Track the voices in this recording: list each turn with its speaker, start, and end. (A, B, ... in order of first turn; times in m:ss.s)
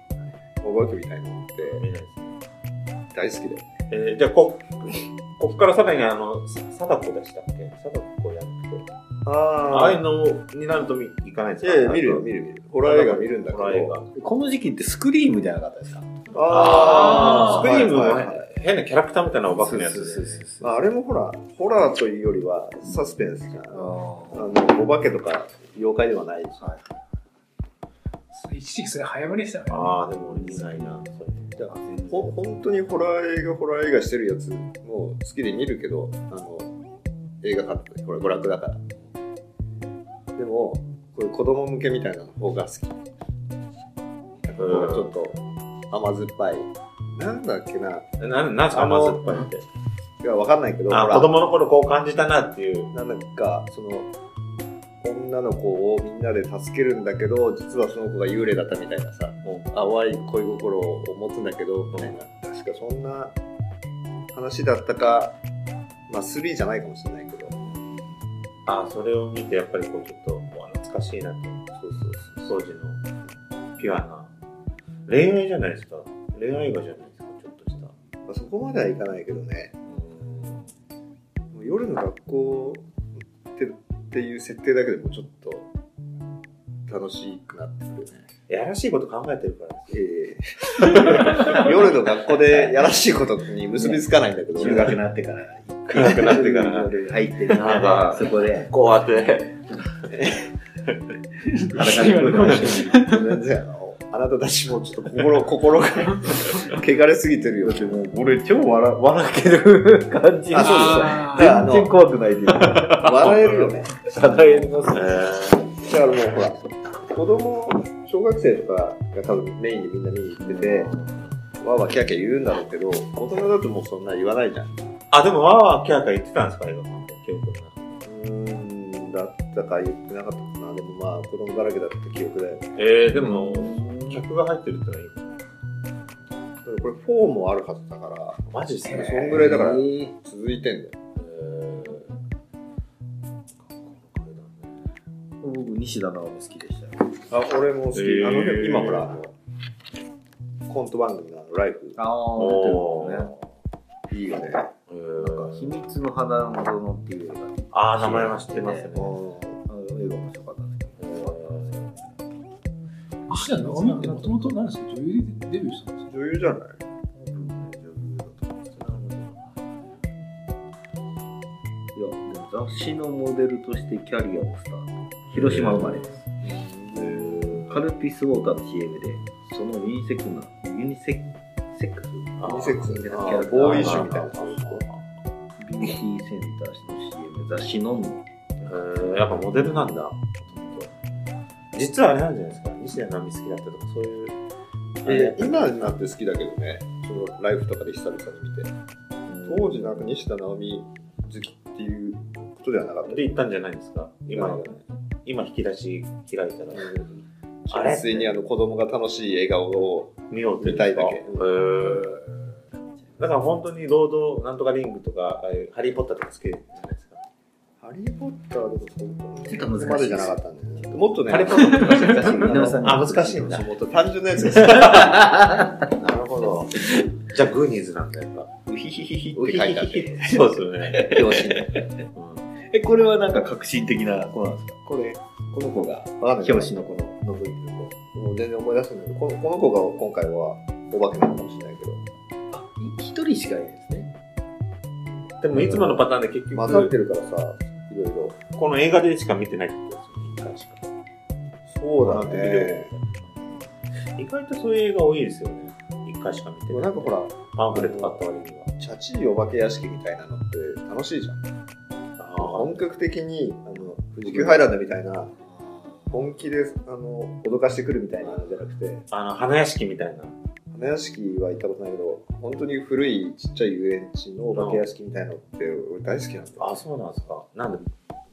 0:00.6-0:01.8 A
0:01.7-0:02.4 B
0:03.1-0:03.7 A
0:03.9-0:08.9 B
0:09.2-0:10.0 A
0:09.7-0:12.3 B
0:11.6-0:14.0 A
0:12.8-0:14.1 B
0:14.1-0:16.2 C
0:16.3-0:18.5 A
0:16.5-0:20.4 B
0:16.8-0:17.7 D
0:19.6-0:20.7 C
0:20.6-0:26.6 A
0:23.7-0:24.5 C
0:28.3-0:30.0 D
0:29.7-0:31.6 B
0:30.4-0:31.0 C
0:31.6-0:36.7 A
0:31.8-0:32.3 C
0:37.4-0:38.8 A
0:40.4-0:43.0 A
0:44.4-0:48.1 A
0:44.6-0:45.1 B
0:48.2-0:49.6 B
0:48.7-0:49.5 A
0:50.2-0:51.3 A
0:50.9-0:52.9 B
0:52.9-0:54.1 A
0:55.0-1:03.4 A
1:04.3-1:05.4 A
1:06.1-1:07.6 A
1:08.7-1:11.6 B
1:11.8-1:12.5 A
1:12.4-1:13.0 B
1:13.8-1:14.3 B
1:15.1-1:17.9 B
1:18.3-1:19.7 A
1:19.9-1:20.6 B
1:21.5-1:22.9 A
1:23.6-1:25.7 A
1:26.9-1:28.2 A
1:28.5-1:30.0 B
1:29.9-1:35.0 A
1:30.7-1:31.7 B
1:33.8-1:38.7 C
1:35.9-1:39.7 B
1:40.1-1:40.4 A
1:41.4-1:43.4 D
1:41.7-1:43.1 C
1:42.5-1:48.0 A
1:47.6-1:53.1 C
1:50.5-1:52.0 A
1:50.6-1:51.6 D
1:52.6-1:53.7 B
1:52.8-1:54.1 A
1:54.0-1:55.2 C
1:54.9-1:55.8 B
1:55.8-2:00.9 A
2:00.5-2:00.9 C
2:00.6-2:01.1 B
2:01.6-2:04.7 A
2:05.1-2:08.0 B
2:08.0-2:12.8 A
2:12.8-2:15.4 B
2:13.1-2:14.2 C
2:16.6-2:21.0 A
2:18.5-2:19.5 B
2:19.0-2:20.1 C
2:21.2-2:22.1 B
2:23.6-2:24.8 B
2:25.4-2:27.1 C
2:27.3-2:29.3 A
2:27.9-2:29.1 B
2:30.7-2:32.0 A
2:32.0-2:33.4 C
2:32.4-2:33.3 B
2:34.1-2:34.7 A
2:34.9-2:35.7 B
2:35.2-2:41.9 C
2:37.7-2:39.2 B
2:39.0-2:39.6 A
2:41.0-2:41.9 B
2:43.3-2:46.1 D
2:43.6-2:44.4 B
2:46.1-2:46.8 A
2:47.2-2:49.0 C
2:48.8-2:49.4 B
2:52.0-2:56.2 C
2:55.3-2:56.2 B
2:56.4-2:57.4 A
2:56.9-2:57.8 B
2:57.2-3:04.2 C
3:02.4-3:02.9 B
3:02.4-3:04.8 A
3:03.6-3:05.0 B
3:05.6-3:09.7 C
3:08.6-3:10.9 B
3:10.6-3:10.8 C
3:11.7-3:14.4 B
3:15.0-3:16.0 B
3:15.0-3:18.7 A
3:19.3-3:19.9 C
3:19.4-3:23.3 A
3:23.1-3:27.0 B
3:24.3-3:24.7 A
3:26.7-3:32.2 A
3:27.7-3:28.3 B
3:30.3-3:32.2 B
3:33.2-3:37.2 B
3:37.8-3:45.1 A
3:39.4-3:40.4 C
3:41.2-3:43.7 C
3:42.3-3:43.7 B
3:44.5-3:48.5 B
3:44.6-3:45.9 C
3:46.8-3:47.1 C
3:48.7-3:52.0 C
3:49.4-3:50.4 A
3:49.7-3:51.5 B
3:51.0-3:51.8 A
3:52.2-3:52.4 B
3:52.6-3:57.9 C
3:56.2-3:56.9 A
3:58.1-4:02.0 A
4:02.5-4:04.1 C
4:05.4-4:06.9 B
4:05.5-4:08.4 A
4:08.6-4:10.8 B
4:11.7-4:12.9 A
4:12.0-4:13.3 B
4:14.2-4:18.7 B
4:16.7-4:18.2 A
4:18.8-4:21.4 A
4:22.2-4:22.8 B
4:22.4-4:25.3 A
4:24.2-4:24.6 B
4:25.5-4:26.1 C
4:26.1-4:29.0 A
4:29.1-4:30.4 B
4:30.7-4:36.7 A
4:34.5-4:34.8 B
4:36.6-4:37.9 B